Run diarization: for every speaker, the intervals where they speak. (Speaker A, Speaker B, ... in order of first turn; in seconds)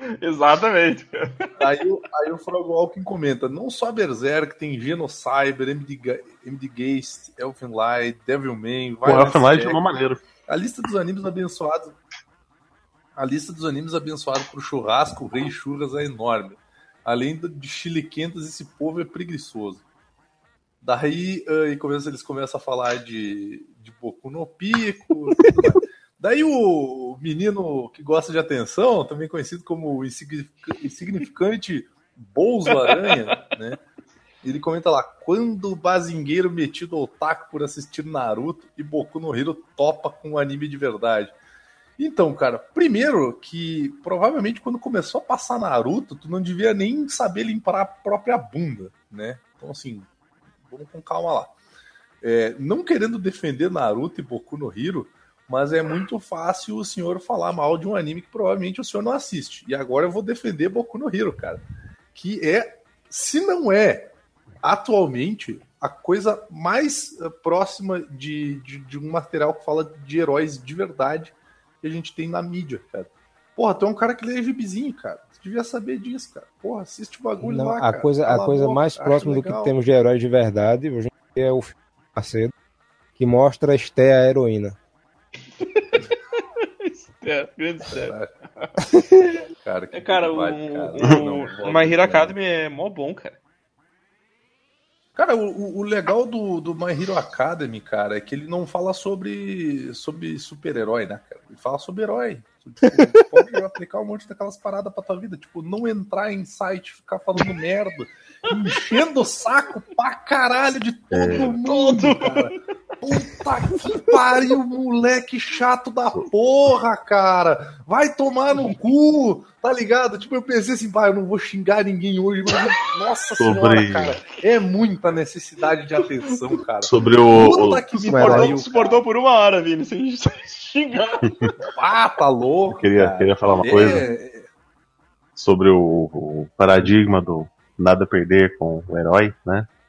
Speaker A: 0.2-1.5, 32.8-33.2, 85.6-88.1, 89.9-93.4, 111.4-112.5, 128.1-131.7
Speaker B: 1.6-9.8, 10.5-11.9, 13.2-19.8, 20.8-33.8, 34.4-41.4, 42.0-50.1, 50.6-51.5, 52.2-61.6, 62.1-79.7, 87.9-88.3, 89.6-92.3, 95.2-129.0, 131.8-134.5
Speaker C: 9.0-10.2, 111.1-111.5, 123.4-124.2, 126.8-127.8, 132.7-134.0, 135.3-139.7
Speaker D: 77.4-82.5, 83.2-84.8, 127.9-128.6